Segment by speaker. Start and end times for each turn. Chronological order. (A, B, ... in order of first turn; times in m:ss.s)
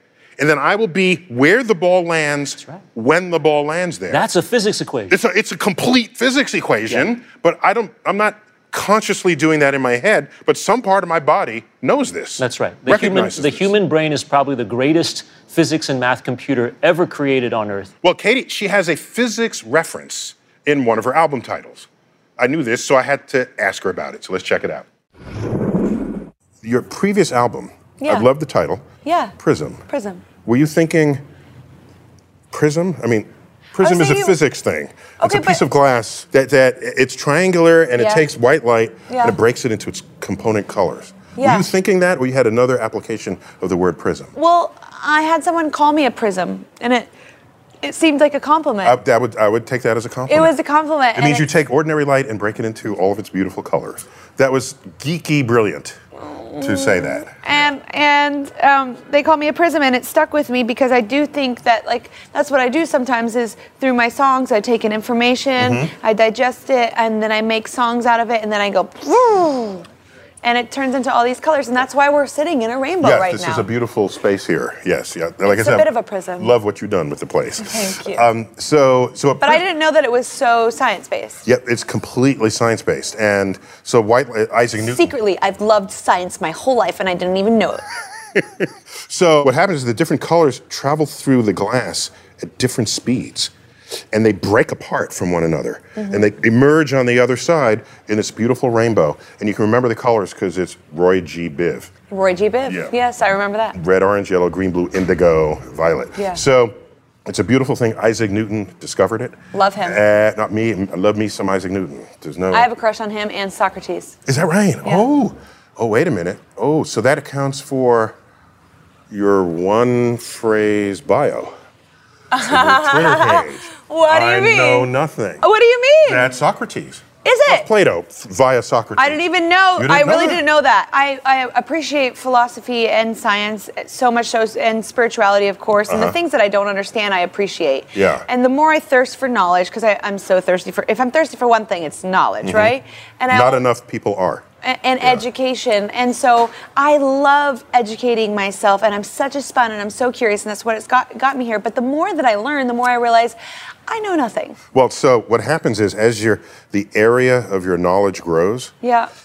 0:00.4-0:04.2 A
0:04.1-0:05.2 B
0:05.1-0:13.7 A
0:12.4-0:17.9 B
0:18.0-0:21.9 A
0:22.4-0:24.9 A
0:26.6-0:28.8 A
0:28.0-0:28.3 C
0:29.0-0:29.4 C
0:29.4-0:29.8 A
0:29.9-0:30.2 C
0:30.4-0:31.2 A
0:32.5-0:44.3 A
0:33.8-0:34.4 C
0:35.2-0:35.6 C
0:38.0-0:38.2 C
0:39.1-0:39.4 C
0:41.4-0:41.7 C
0:44.3-0:47.1 C
0:47.8-0:49.0 C
0:48.8-0:50.5 A
0:50.3-0:51.5 C
0:51.1-0:56.0 A
0:56.2-1:09.9 C
0:56.6-0:57.7 A
1:05.6-1:05.9 A
1:10.4-1:13.7 C
1:13.0-1:19.6 A
1:15.4-1:16.5 C
1:17.6-1:18.2 C
1:19.4-1:21.4 C
1:21.4-1:25.1 A
1:24.8-1:27.8 C
1:28.3-1:33.5 A
1:34.1-1:41.9 A
1:36.0-1:36.3 C
1:42.1-1:43.8 C
1:42.7-1:42.9 A
1:43.7-1:52.7 A
1:49.5-1:50.0 C
1:52.5-1:54.2 C
1:54.2-1:58.2 A
1:59.1-2:01.5 A
2:02.3-2:04.9 C
2:02.4-2:05.4 A
2:05.4-2:06.3 C
2:06.0-2:09.2 A
2:07.2-2:07.7 C
2:09.0-2:23.6 C
2:09.8-2:10.4 A
2:15.9-2:16.2 A
2:17.9-2:18.2 A
2:22.4-2:22.7 A
2:23.3-2:24.4 A
2:24.6-2:33.4 C
2:33.9-2:34.6 C
2:34.7-2:38.7 A
2:38.8-2:39.1 C